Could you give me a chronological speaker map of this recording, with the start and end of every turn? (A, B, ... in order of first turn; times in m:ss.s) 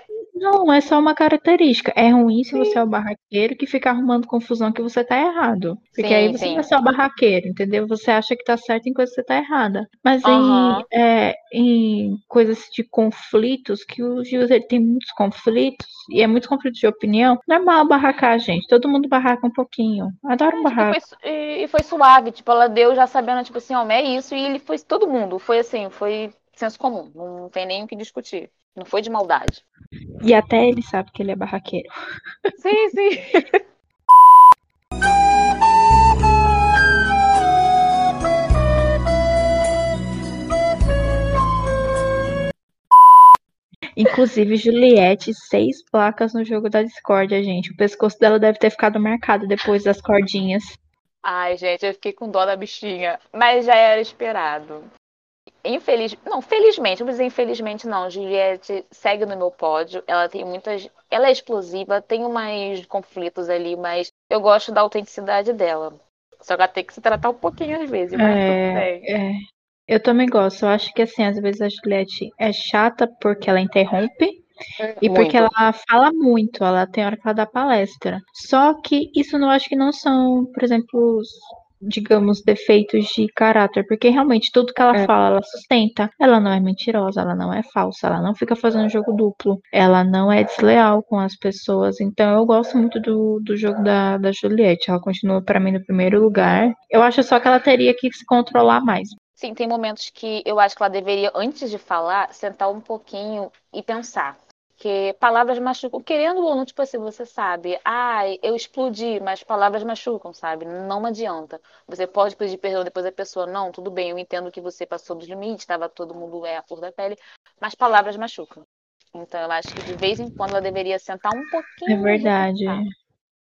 0:00.4-0:21.0 A
0:06.0-0:06.7 B
0:10.2-0:10.9 B
0:20.5-0:29.6 B
0:30.2-0:31.9 A
0:32.6-0:33.6 B
0:44.0-0:50.8 A
0:51.2-0:54.9 B
0:55.6-1:09.1 B
1:08.2-1:14.4 A
1:14.8-1:15.5 B
1:15.0-1:39.1 A
1:39.4-1:58.6 B
1:59.1-2:02.8 B
2:01.9-2:02.9 A